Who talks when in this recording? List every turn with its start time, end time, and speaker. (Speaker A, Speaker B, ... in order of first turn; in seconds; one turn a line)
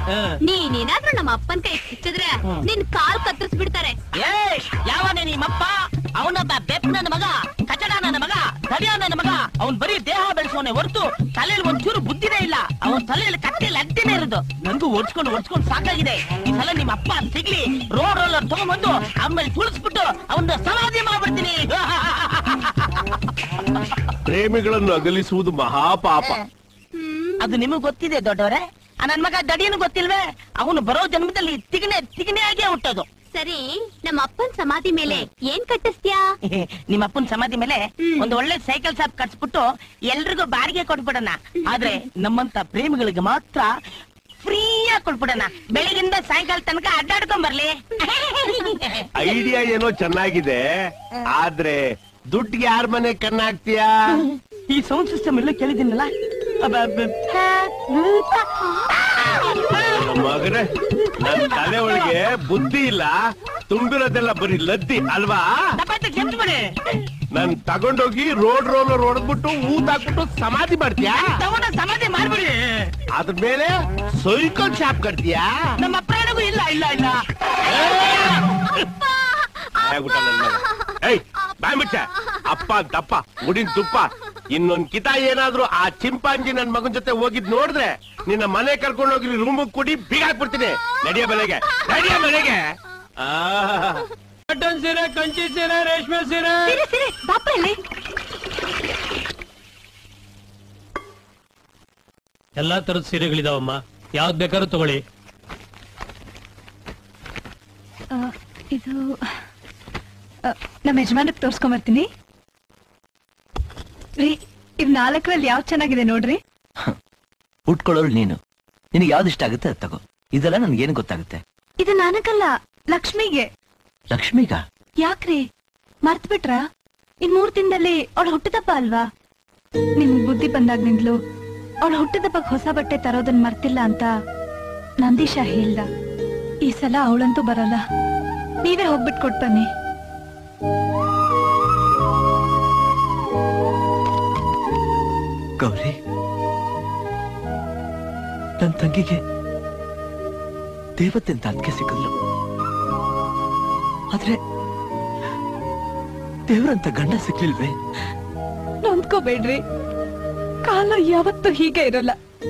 Speaker A: 0.5-3.9
Speaker B: 4.1-22.7
Speaker C: 24.3-26.3
Speaker B: 27.4-33.1
Speaker A: 33.3-36.2
Speaker B: 36.5-43.7
Speaker B: 44.4-49.0
Speaker C: 49.2-50.6
Speaker C: 51.3-51.8
Speaker C: 52.3-53.9
Speaker B: 54.7-56.1
Speaker C: 59.8-60.7
Speaker C: 61.2-63.1
Speaker C: 63.7-65.4
Speaker B: 65.8-66.6
Speaker C: 67.3-71.2
Speaker B: 71.0-72.5
Speaker C: 73.2-75.5
Speaker B: 75.8-77.2
Speaker C: 79.8-92.5
Speaker C: 93.2-94.0
Speaker D: 94.5-96.7
Speaker E: 96.7-97.8
Speaker D: 102.6-105.0
Speaker E: 108.7-109.1
Speaker E: 110.5-112.0
Speaker E: 114.2-116.4
Speaker F: 117.7-118.4
Speaker F: 118.9-121.4
Speaker E: 121.8-123.5
Speaker F: 124.1-124.6
Speaker E: 125.0-125.4
Speaker E: 126.0-126.6
Speaker E: 127.2-129.0
Speaker E: 130.0-131.1
Speaker E: 131.8-134.1
Speaker E: 135.0-135.9
Speaker E: 136.6-137.8
Speaker E: 138.6-139.7
Speaker F: 145.6-145.9
Speaker F: 148.6-149.2
Speaker F: 151.0-152.1
Speaker F: 154.1-154.4
Speaker F: 156.5-157.7
Speaker E: 158.8-159.6
Speaker E: 160.7-162.1